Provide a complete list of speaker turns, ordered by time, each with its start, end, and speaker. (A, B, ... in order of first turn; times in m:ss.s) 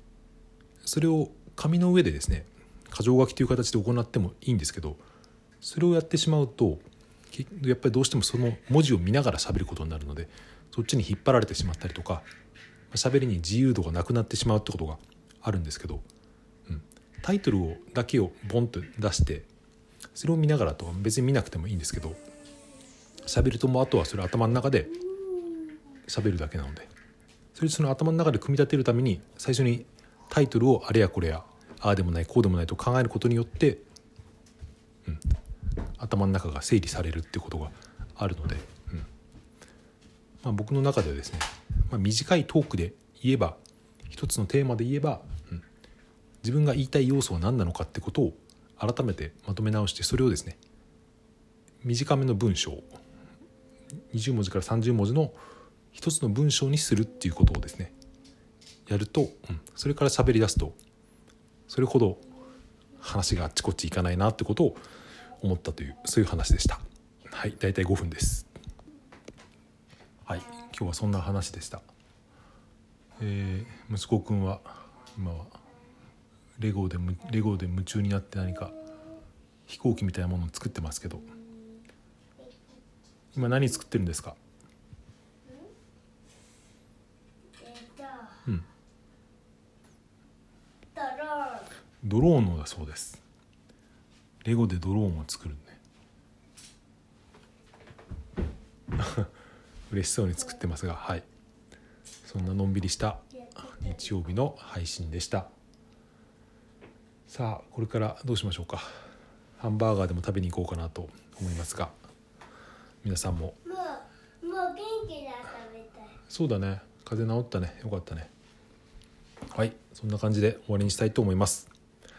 0:00.8-0:05.0 A
0:05.6-0:12.3 A
0:12.9-0:16.0 A
0:16.7-0:19.5 A
0:20.2-0:22.2 A
0:23.2-0:25.0 A
0:26.1-0:26.9 A
0:27.6-0:33.8 A
0:36.0-0:39.1 A
0:40.4-0:45.6 A
0:46.4-0:50.6 A
0:51.8-0:53.0 A
0:54.1-0:55.4 A
0:55.9-0:58.0 A
0:58.9-1:00.8 A
1:01.7-1:02.2 A
1:03.0-1:04.8 A
1:05.4-1:08.5 A
1:10.3-1:11.8 A
1:13.2-1:15.6 A
1:16.6-1:18.8 A
1:19.7-1:21.3 A
1:22.4-1:22.7 B
1:23.3-1:24.4 A
1:27.6-1:28.4 B
1:30.9-1:31.7 B
1:32.0-1:33.2 A
1:34.4-1:35.8 A
1:39.0-1:39.3 A
1:39.9-1:41.2 A
1:42.2-1:45.5 A
1:47.3-1:48.9 A
1:49.6-1:52.0 A
1:53.0-1:53.6 A
1:53.6-1:56.2 B
1:56.3-1:58.3 A
1:59.5-2:01.7 A